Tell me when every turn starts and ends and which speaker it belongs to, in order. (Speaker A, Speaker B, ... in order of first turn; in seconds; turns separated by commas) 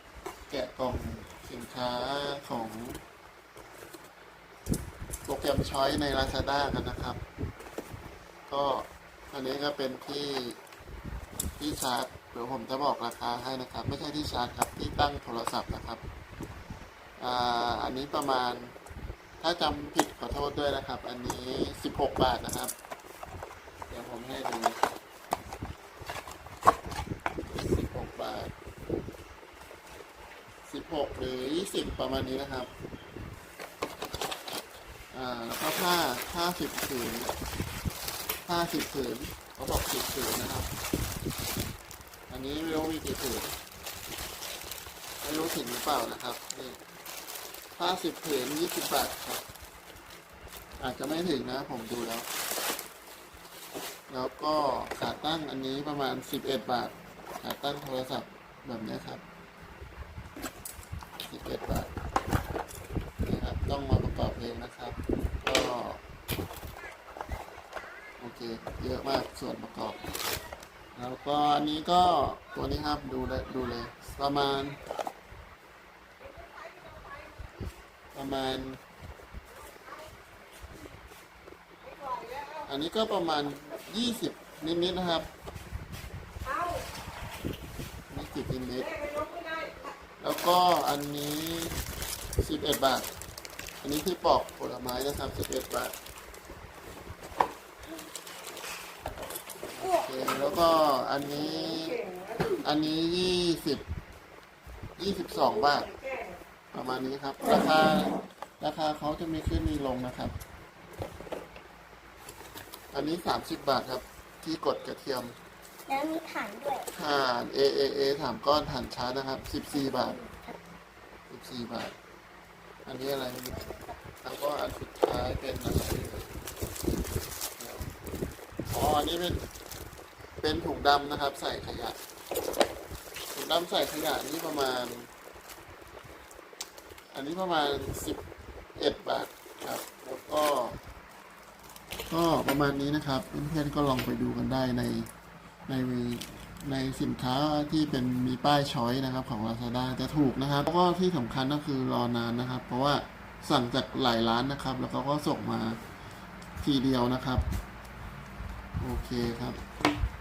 Speaker A: 0.5-3.0, Speaker A: 5.2-7.2, Speaker A: 8.5-10.6, Speaker A: 11.6-16.0, Speaker A: 17.2-18.7, Speaker A: 19.4-22.7, Speaker A: 23.9-24.8, Speaker A: 27.4-28.5, Speaker A: 30.7-32.7, Speaker A: 35.1-37.3, Speaker A: 38.5-40.7, Speaker A: 42.3-43.5, Speaker A: 45.2-46.8, Speaker A: 47.8-49.4, Speaker A: 50.8-52.3, Speaker A: 54.1-59.2, Speaker A: 61.2-61.9, Speaker A: 63.2-66.0, Speaker A: 68.2-70.0, Speaker A: 70.9-74.8, Speaker A: 78.1-78.8, Speaker A: 82.6-85.3, Speaker A: 88.1-89.0, Speaker A: 90.2-91.8, Speaker A: 92.4-93.1, Speaker A: 93.8-95.9, Speaker A: 99.7-103.8, Speaker A: 105.0-105.9, Speaker A: 106.7-110.3, Speaker A: 112.9-115.4, Speaker B: 115.9-116.9, Speaker A: 116.9-120.2, Speaker B: 119.7-120.6, Speaker A: 121.3-121.9, Speaker A: 122.8-123.6, Speaker B: 123.5-124.0, Speaker A: 124.2-126.3, Speaker A: 127.6-127.9, Speaker A: 128.7-129.4, Speaker A: 130.4-132.0, Speaker A: 133.3-135.1, Speaker A: 137.1-138.2, Speaker A: 138.8-140.8, Speaker A: 142.1-145.1, Speaker A: 145.7-155.8, Speaker A: 156.6-157.4, Speaker A: 158.8-159.6